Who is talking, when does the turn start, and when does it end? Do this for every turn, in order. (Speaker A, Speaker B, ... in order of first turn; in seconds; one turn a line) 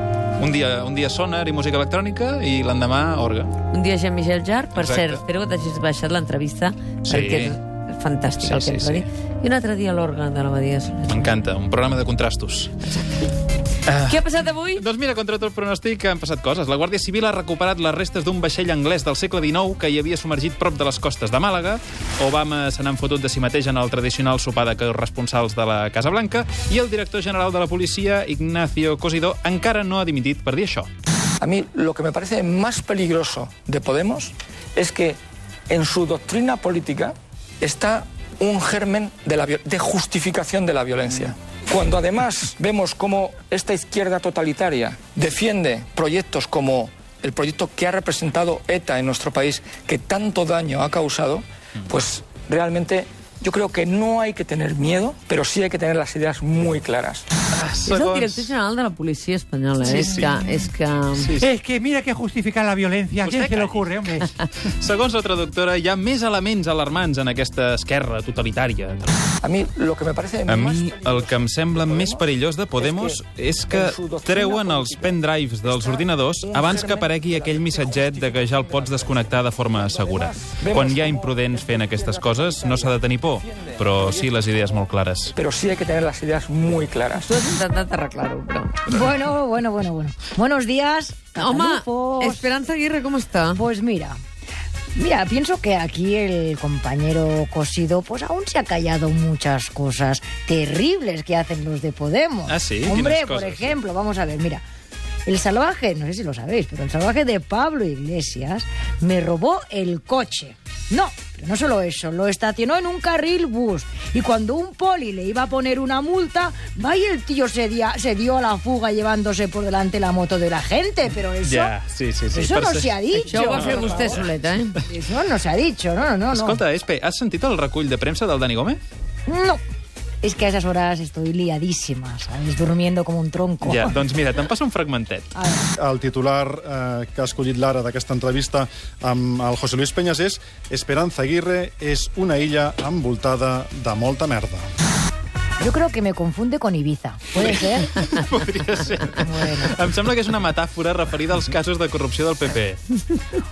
Speaker A: 0.4-3.5
Speaker B: 3.7-11.3
Speaker A: 4.8-5.2
Speaker A: 7.0-7.5
Speaker A: 8.4-9.1
Speaker A: 11.1-12.8
Speaker B: 12.8-13.1
Speaker A: 13.9-30.9
Speaker B: 14.1-14.8
Speaker C: 31.4-57.3
Speaker A: 57.5-58.5
Speaker B: 57.9-61.4
Speaker A: 59.9-60.2
Speaker A: 61.2-61.5
Speaker D: 61.4-64.3
Speaker A: 63.2-69.2
Speaker C: 69.4-75.2
Speaker A: 70.5-85.3
Speaker C: 75.7-84.3
Speaker C: 85.4-87.3
Speaker B: 87.2-88.8
Speaker E: 88.9-92.5
Speaker B: 91.4-93.6
Speaker E: 93.5-94.2
Speaker E: 95.0-104.6
Speaker A: 102.5-103.7
Speaker E: 105.3-121.7
Speaker A: 121.5-122.9
Speaker E: 122.3-124.2
Speaker B: 123.1-124.8
Speaker A: 123.5-124.2
Speaker E: 124.8-126.6
Speaker A: 126.3-128.8
Speaker E: 129.3-129.6
Speaker E: 130.2-134.0
Speaker A: 133.6-135.3
Speaker E: 135.3-135.7
Speaker F: 135.8-144.7
Speaker E: 145.6-147.9
Speaker A: 147.4-152.8
Speaker E: 149.2-149.8